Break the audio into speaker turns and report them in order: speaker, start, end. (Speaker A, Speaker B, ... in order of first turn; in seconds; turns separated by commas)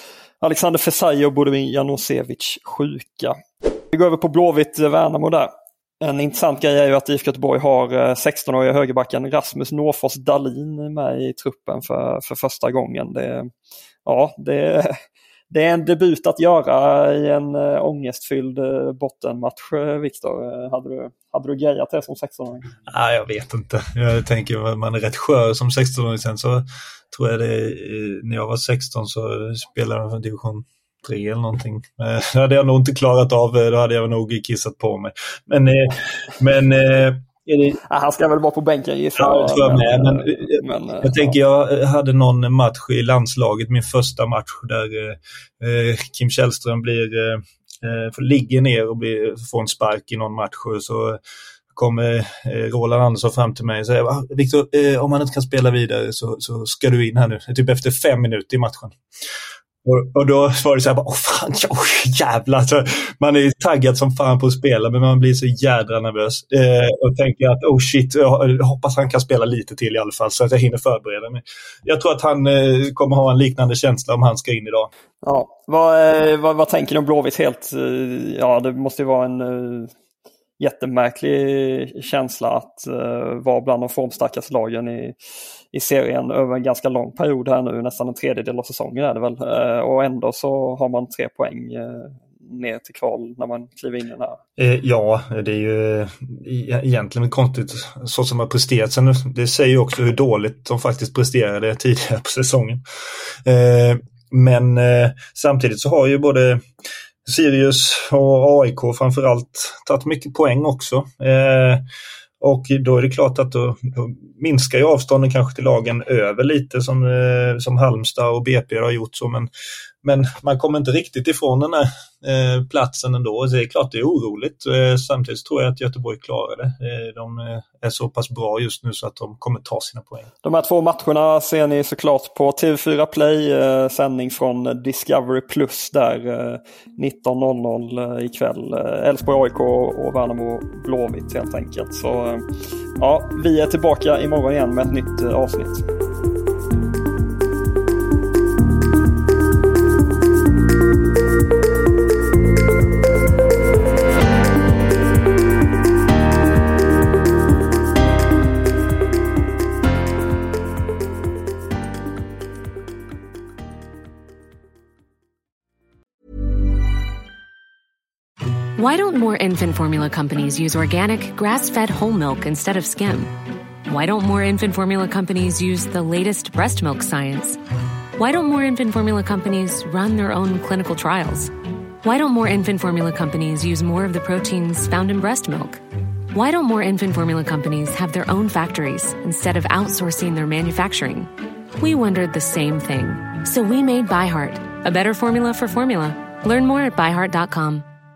Speaker A: 0.4-3.4, Speaker A: 3.9-13.5, Speaker A: 14.0-15.0, Speaker A: 15.5-22.7, Speaker B: 22.9-37.8, Speaker A: 37.9-41.3, Speaker B: 39.2-51.2, Speaker B: 51.7-59.0, Speaker B: 59.8-74.9, Speaker A: 75.2-79.9, Speaker A: 80.6-85.2, Speaker A: 85.7-94.4, Speaker B: 94.6-102.8, Speaker B: 103.5-106.6, Speaker B: 107.2-111.8, Speaker B: 112.4-119.5, Speaker B: 120.0-130.3, Speaker A: 130.4-142.4, Speaker A: 143.0-145.8, Speaker C: 168.8-177.6, Speaker C: 178.2-181.5, Speaker C: 182.0-185.8, Speaker C: 186.3-197.8